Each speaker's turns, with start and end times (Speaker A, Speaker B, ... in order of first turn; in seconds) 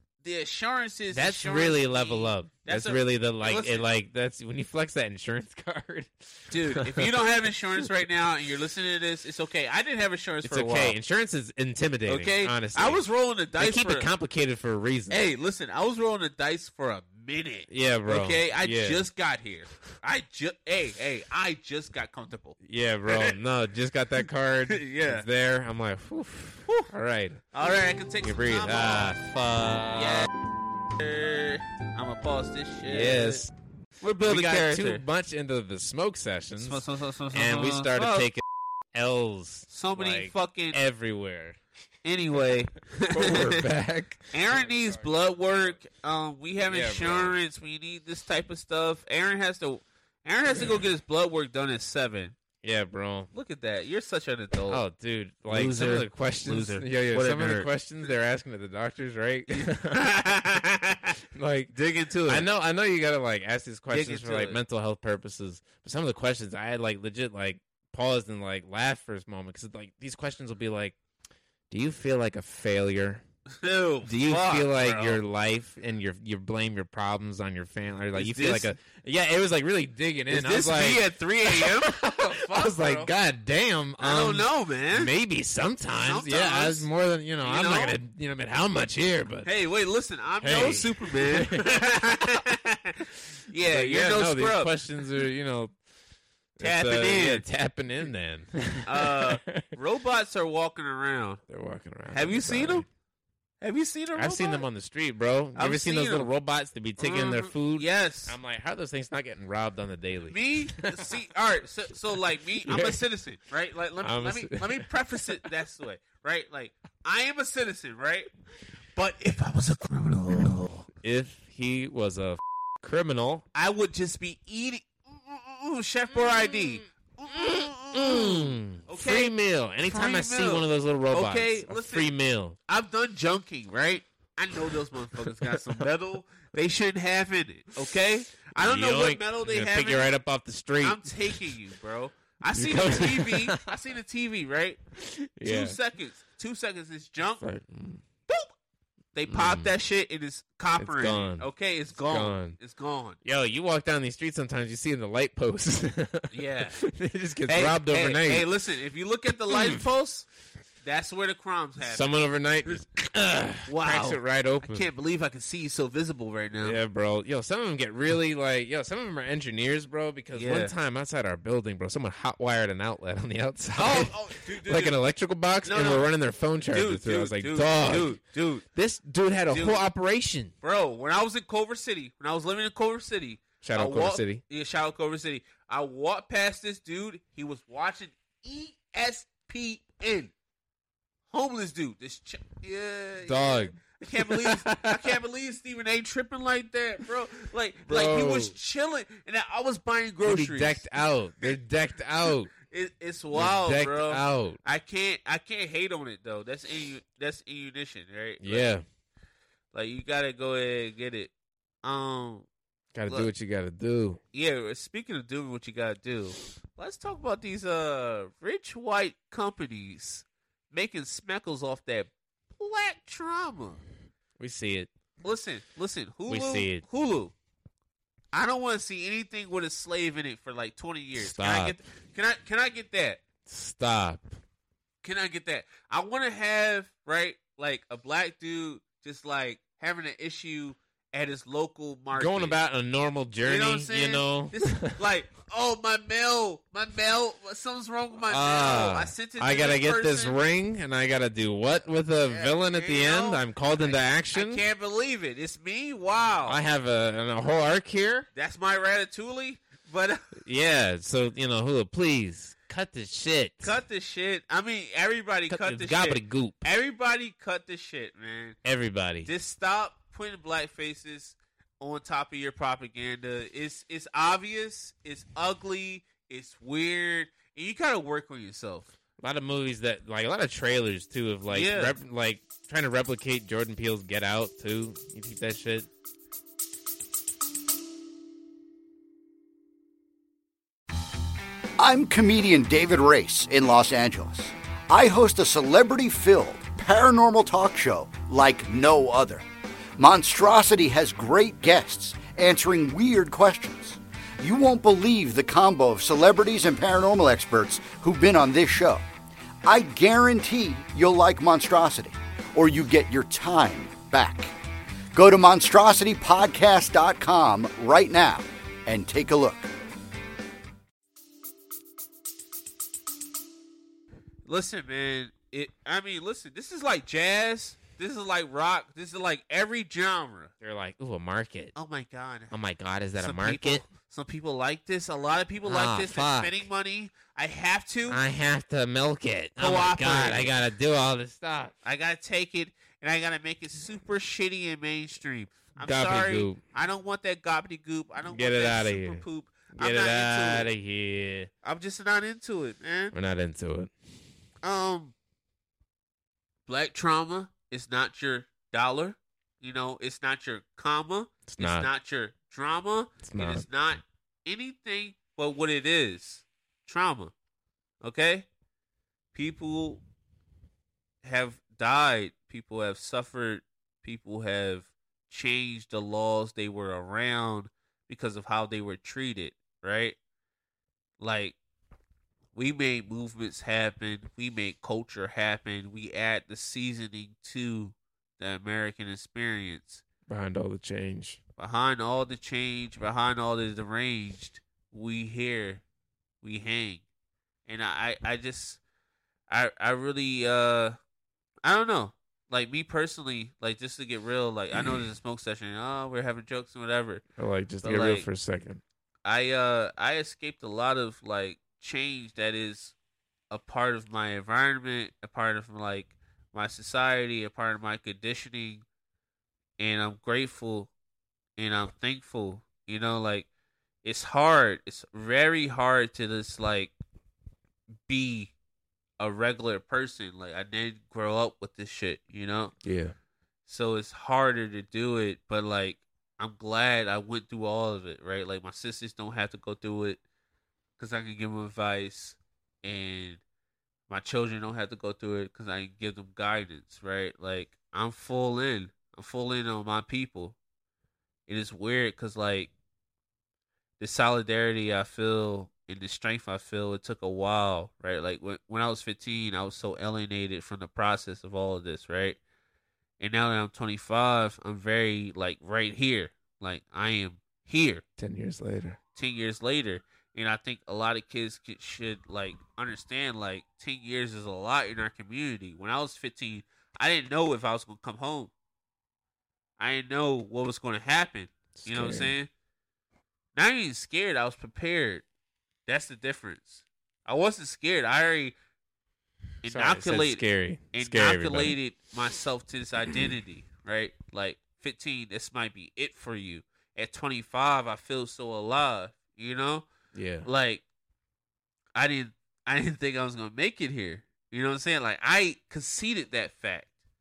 Speaker A: 0.2-3.8, 6.5-11.0, 12.1-14.1, 15.1-23.3, 24.7-25.2, 26.6-26.9, 27.5-29.2, 29.9-30.3, 30.9-33.4, 34.0-35.0, 36.6-38.3, 39.7-40.8, 42.0-43.6, 44.3-52.4, 53.3-54.8, 55.5-57.7, 59.5-61.2, 61.7-62.5, 63.9-64.6, 73.6-75.2, 78.1-78.7, 80.3-83.1, 84.0-85.1, 86.0-86.9, 87.4-88.0, 89.4-94.8, 96.6-97.4, 98.8-101.4, 102.1-102.8, 103.6-104.6, 105.5-106.3, 107.0-108.4, 110.3-118.3, 118.9-120.8, 123.5-132.1, 132.7-140.1, 140.8-144.8, 145.4-147.4, 149.1-153.2, 156.3-156.8, 157.5-160.3, 160.8-162.0, 163.7-166.8, 170.3-170.7, 173.7-175.0, 175.6-176.1, 176.7-178.6, 179.5-179.8, 180.6-190.3, 191.3-200.8, 202.6-208.7, 209.7-211.3, 211.8-212.5, 214.3-223.8, 225.2-227.3, 228.3-233.2, 235.0-242.6, 243.4-250.4, 252.2-256.6, 258.3-260.3, 263.6-268.6, 269.2-278.9, 281.5-282.0, 324.4-330.5, 331.7-332.5, 333.2-338.2, 339.6-340.5, 341.8-350.7, 351.6-353.1, 354.6-355.1, 356.7-367.3, 368.0-368.5, 369.3-370.0, 371.2-380.2, 381.2-381.6, 382.5-390.0, 391.6-395.8, 396.4-397.0, 397.7-398.8, 399.5-400.9, 401.6-407.2, 407.8-408.3, 409.2-412.9, 413.5-418.8, 419.8-420.9, 421.6-423.5, 424.0-426.9, 428.1-428.5, 429.2-432.7, 433.7-440.2, 441.0-443.4, 444.1-450.6, 451.5-452.7, 454.0-462.4, 463.2-468.0, 469.1-478.5, 479.8-482.5, 483.5-485.2, 485.9-488.5, 489.6-499.9, 500.4-500.8, 501.9-506.9
Speaker B: 1.1-7.1, 10.4-15.2, 17.7-19.1, 22.6-27.4, 28.2-30.3, 32.8-33.5, 34.2-41.6, 43.1-45.1, 46.6-47.4, 52.6-53.3, 54.7-60.1, 61.3-61.7, 62.2-71.0, 71.7-73.2, 74.0-89.5, 90.4-91.9, 93.6-95.7, 96.6-99.7, 101.5-102.9, 104.1-111.1, 112.6-113.0, 114.0-115.5, 120.9-123.4, 126.2-126.6, 127.3-132.6, 138.6-141.5, 142.5-143.7, 145.0-145.8, 147.4-148.0, 149.3-149.7, 150.8-151.5, 152.0-152.6, 153.2-158.4, 159.5-159.8, 161.8-164.9, 166.6-178.2, 178.7-180.5, 183.6-184.4, 193.2-195.2, 197.8-198.6, 200.2-202.5, 203.3-204.6, 208.4-208.8, 212.9-214.2, 224.4-224.9, 226.3-226.8, 231.1-231.8, 233.4-234.3, 242.1-245.0, 248.3-254.6, 256.4-258.3, 260.4-263.8, 265.5-266.6, 268.6-269.3, 279.2-285.9, 330.6-331.7, 332.5-333.8, 335.6-336.6, 338.1-341.7, 345.8-346.6, 348.2-351.5, 353.1-353.9, 361.5-361.9, 363.2-363.6, 390.3-391.4, 407.4-408.8, 432.8-433.1, 468.2-469.0, 481.7-482.3, 489.6-491.8, 500.1-500.5
Speaker C: 291.8-299.4, 300.0-309.0, 309.6-314.5, 315.1-319.7